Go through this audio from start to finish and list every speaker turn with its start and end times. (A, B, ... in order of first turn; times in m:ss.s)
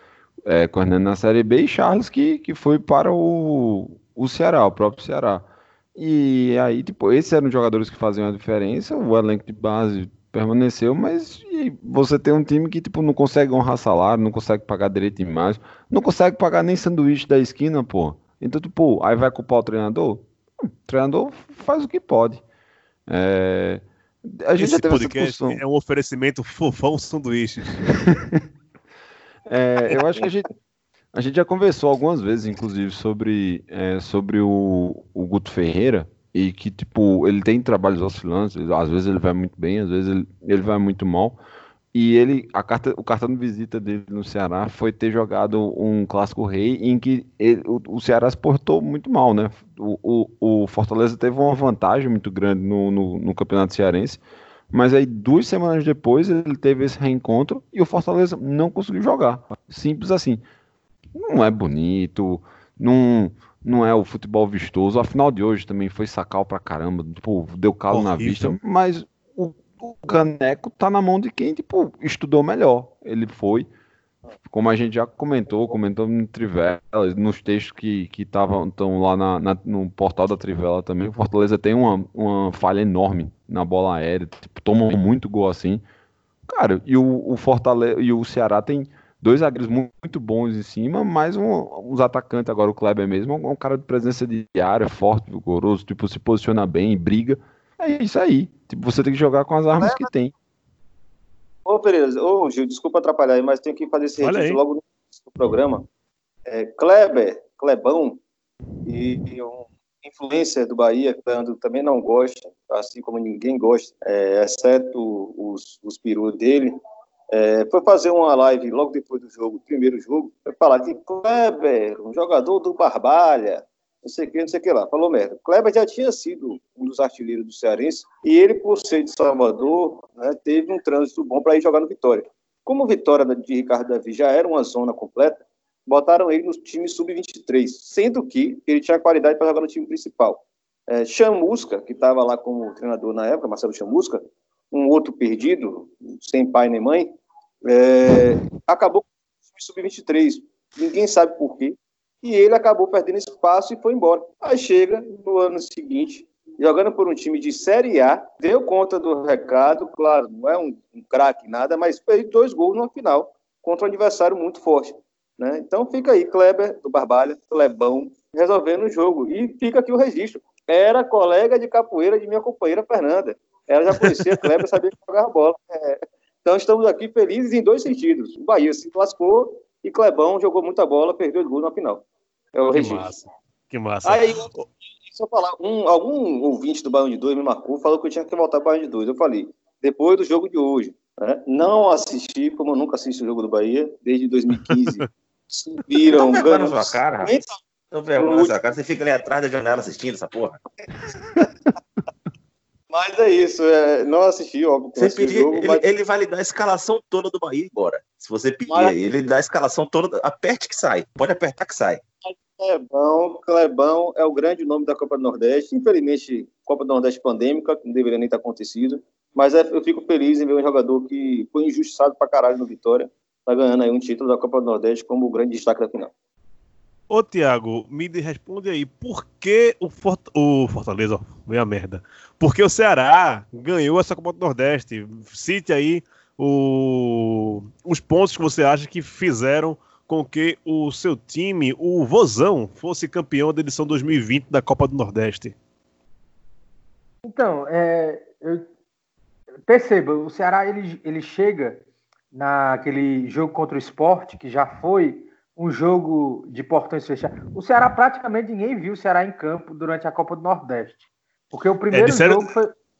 0:00.4-0:20.3 A
0:20.8-0:22.4 A
0:23.1-0:25.6 A
0:24.6-0:28.1 B
0:29.5-0:30.5 A
0:31.1-0:41.4 A
0:41.9-1:00.4 A
1:01.1-1:13.7 A
1:07.9-1:08.6 B
1:14.4-1:25.8 A
1:26.5-1:40.3 A
1:39.8-1:40.1 C
1:41.6-1:45.8 C
1:44.2-1:44.6 B
1:46.5-1:48.2 C
1:48.8-1:56.8 C
1:57.3-2:27.1 C
2:27.7-3:03.1 C
2:54.0-2:54.4 B
3:02.7-3:04.7 B
3:04.0-3:04.5 C
3:05.0-3:17.6 C
3:14.7-3:15.0 B
3:16.0-3:17.3 D
3:17.9-3:20.6 D
3:18.2-3:18.6 C
3:22.9-3:25.8 C
3:25.0-3:32.0 D
3:28.7-3:28.9 C
3:32.2-3:46.1 C
3:47.1-4:05.5 B
4:07.2-4:08.6 E
4:09.7-4:22.7 E
4:21.9-4:22.5 B